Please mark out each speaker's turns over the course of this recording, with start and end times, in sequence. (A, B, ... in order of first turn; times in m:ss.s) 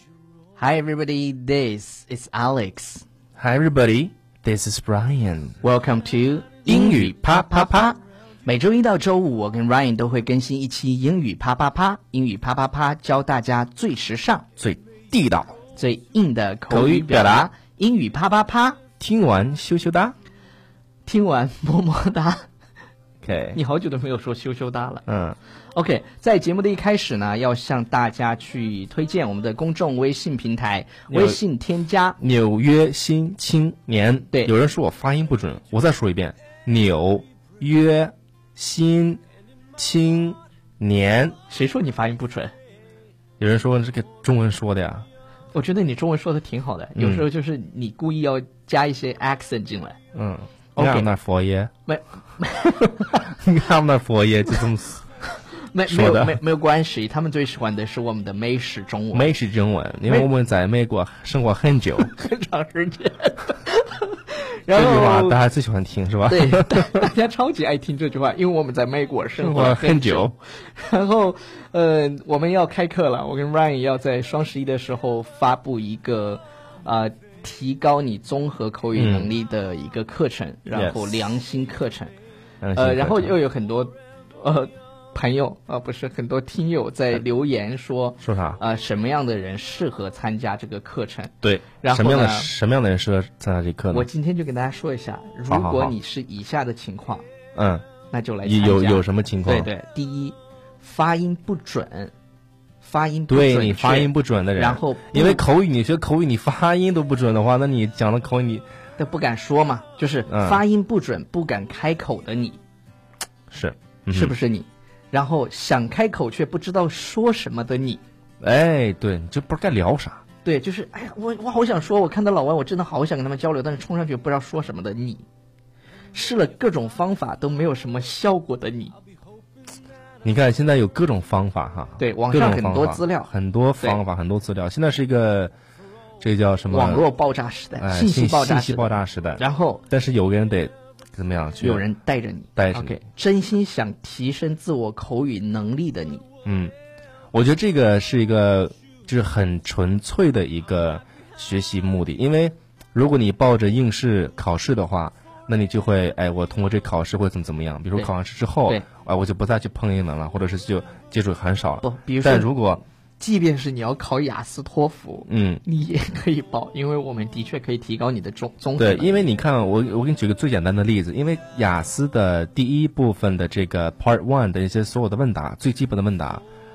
0:00.6-0:03.0 A
0:03.4-0:05.6 B
0:05.6-0:14.5 A
0:06.6-0:07.9 B
0:14.6-0:15.6 B
0:15.7-0:18.8 A
0:16.7-0:17.5 B
0:19.0-0:20.1 B
0:21.0-0:22.4 A
0:23.2-0:23.6 B
0:23.5-0:25.0 A
0:25.1-0:25.4 B
0:25.7-0:32.2 A
0:31.1-0:31.4 B
0:32.2-0:39.2 B
0:39.8-0:41.4 B
0:41.5-0:42.5 A
0:43.4-0:45.0 B
0:45.5-0:50.0 A
0:46.9-0:47.3 B
0:50.1-0:51.7 B
0:50.8-0:51.1 A
0:51.8-0:53.2 A
0:52.8-0:55.0 B
0:55.7-0:59.3 A
0:55.8-0:56.4 B
0:59.1-1:02.1 B
1:02.1-1:05.4 A
1:04.7-1:07.1 B
1:06.3-1:22.1 A
1:09.4-1:10.3 B
1:19.0-1:19.3 B
1:20.7-1:21.3 B
1:22.6-1:23.3 B
1:22.8-1:32.5 A
1:28.2-1:28.6 B
1:31.4-1:34.1 B
1:33.9-1:37.2 A
1:35.5-1:35.9 B
1:37.5-1:37.8 B
1:38.1-1:42.1 A
1:38.4-1:39.7 B
1:42.8-1:45.4 A
1:43.3-1:48.6 B
1:49.0-1:52.6 A
1:50.3-1:50.6 B
1:53.5-1:54.3 B
1:54.1-1:58.0 A
1:58.4-2:00.2 B
2:00.4-2:05.2 A
2:06.1-2:08.9 A
2:10.2-2:15.5 B
2:12.0-2:14.0 A
2:16.2-2:17.1 B
2:16.7-2:19.8 A
2:17.8-2:21.8 B
2:21.6-2:26.2 A
2:22.6-2:23.0 B
2:26.4-2:26.7 B
2:27.3-2:42.8 B
2:41.8-2:42.5 A
2:43.2-2:49.2 A
2:45.3-2:45.6 B
2:48.8-2:56.4 B